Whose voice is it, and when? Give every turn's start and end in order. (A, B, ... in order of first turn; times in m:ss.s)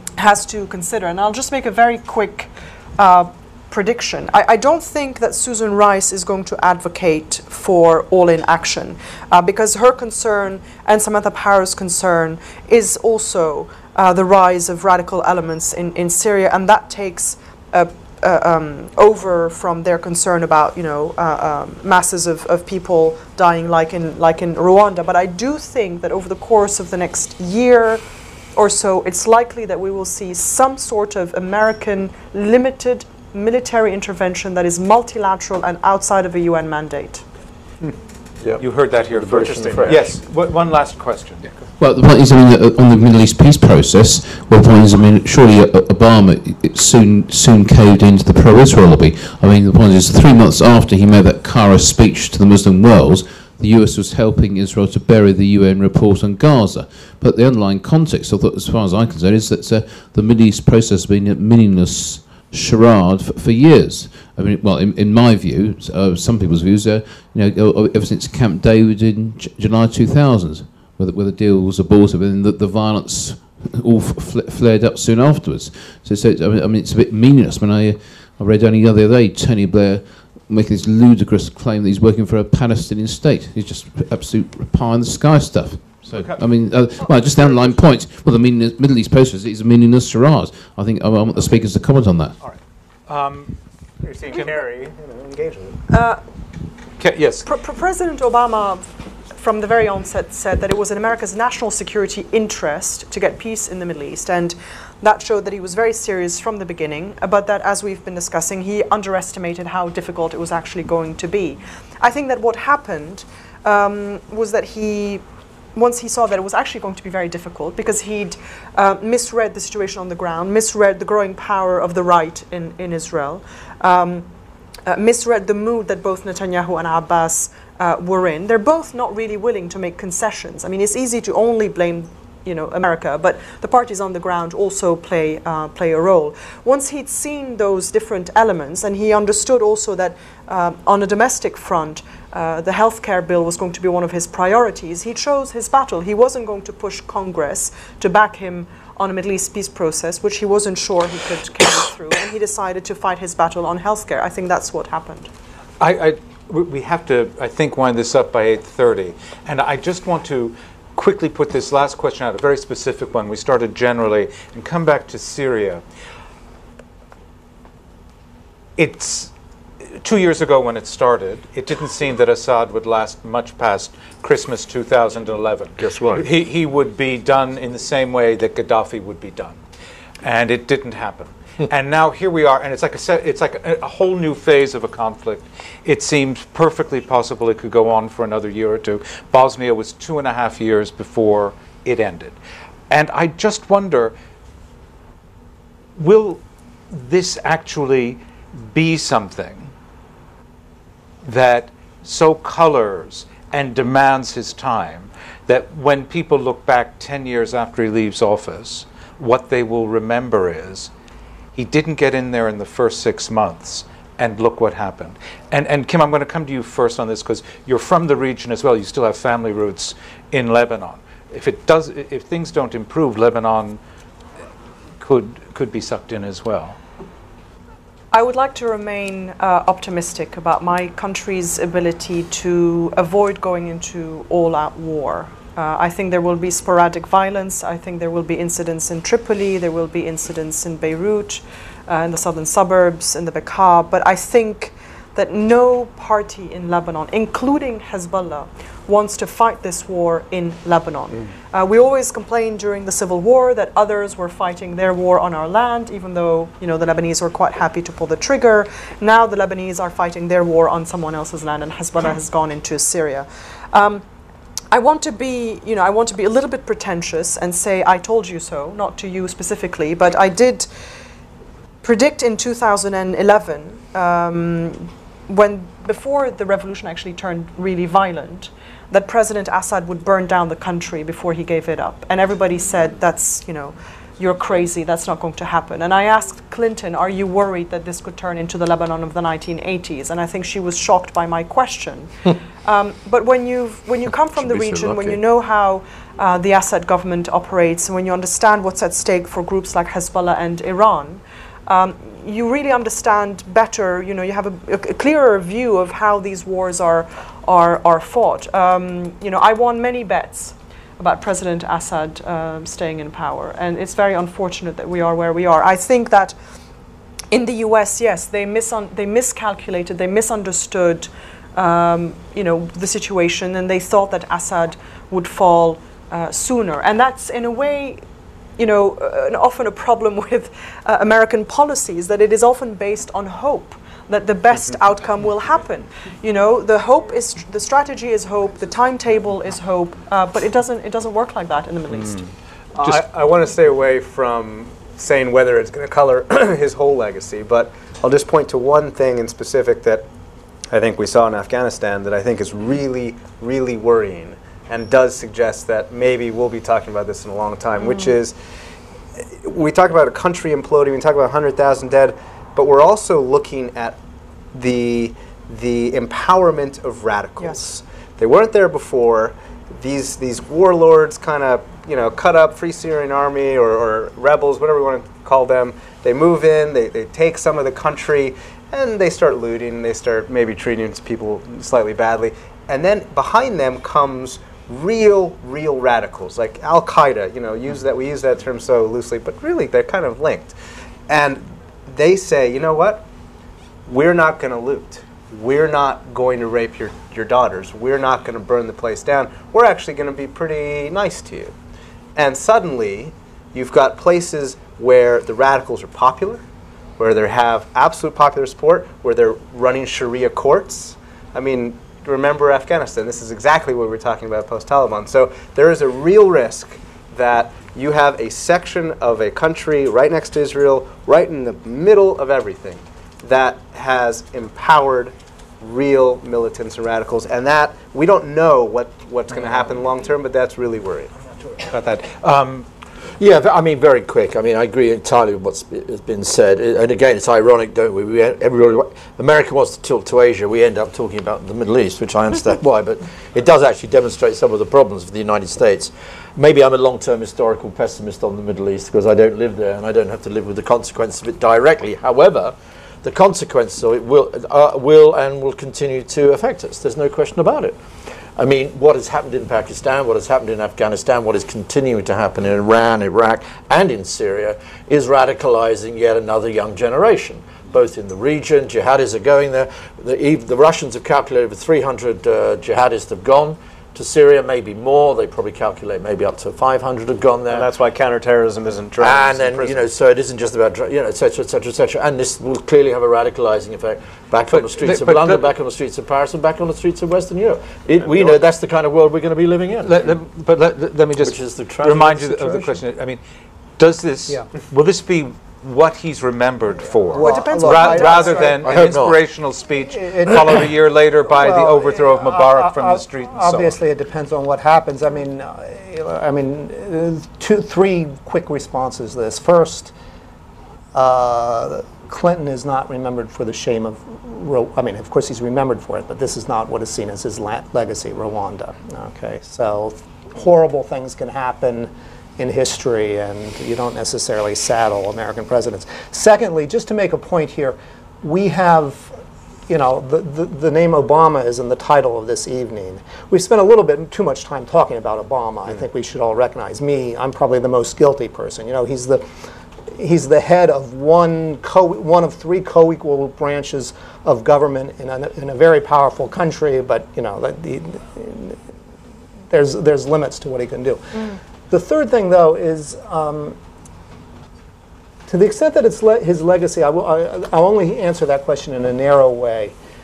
0:00.2-0:28.0 A
0:28.6-0:37.2 A
0:38.4-0:40.1 B
0:38.6-0:41.5 C
0:41.8-1:32.3 D
1:26.1-1:27.8 C
1:32.4-1:33.5 C
1:34.0-1:35.8 E
1:35.9-1:36.2 A
1:37.0-1:37.5 C
1:37.4-1:38.8 A
1:39.4-1:55.2 A
1:55.8-2:04.3 A
2:04.9-2:35.3 A
2:35.8-2:45.8 C
2:48.8-2:49.3 C
2:50.0-2:59.6 C
2:55.8-2:56.3 B
3:00.2-3:12.4 C
3:12.9-3:14.2 C
3:16.0-3:19.7 C
3:21.2-3:30.9 C
3:31.5-3:43.8 C
3:45.0-3:46.8 C
3:48.1-4:24.0 A
4:24.7-4:30.7 A
4:31.8-4:52.1 A
4:52.6-5:16.4 A
4:54.4-4:55.2 B
5:17.3-5:28.0 A
5:28.6-5:42.2 A
5:42.8-5:50.1 E
5:50.7-5:58.4 E
5:57.8-5:58.1 A
5:59.4-6:04.0 E
6:04.5-6:30.6 E
6:31.1-6:33.0 E
6:33.9-6:41.5 E
6:42.2-6:46.4 E
6:47.0-7:11.1 E
7:11.7-7:12.7 C
7:13.2-7:37.8 B
7:38.4-7:57.7 B
7:57.5-7:59.8 E
7:59.0-8:10.1 B
8:04.5-8:05.5 C
8:08.0-8:08.4 E
8:09.8-8:13.2 C
8:11.2-8:12.8 B
8:13.8-8:23.8 C
8:17.1-8:18.9 F
8:17.1-8:18.6 A
8:18.6-8:19.2 B
8:19.8-8:20.6 F
8:21.3-8:29.9 F
8:30.9-8:49.2 F
8:49.7-8:59.2 F
8:59.9-9:08.6 F
9:09.5-9:13.6 F
9:15.3-9:19.8 F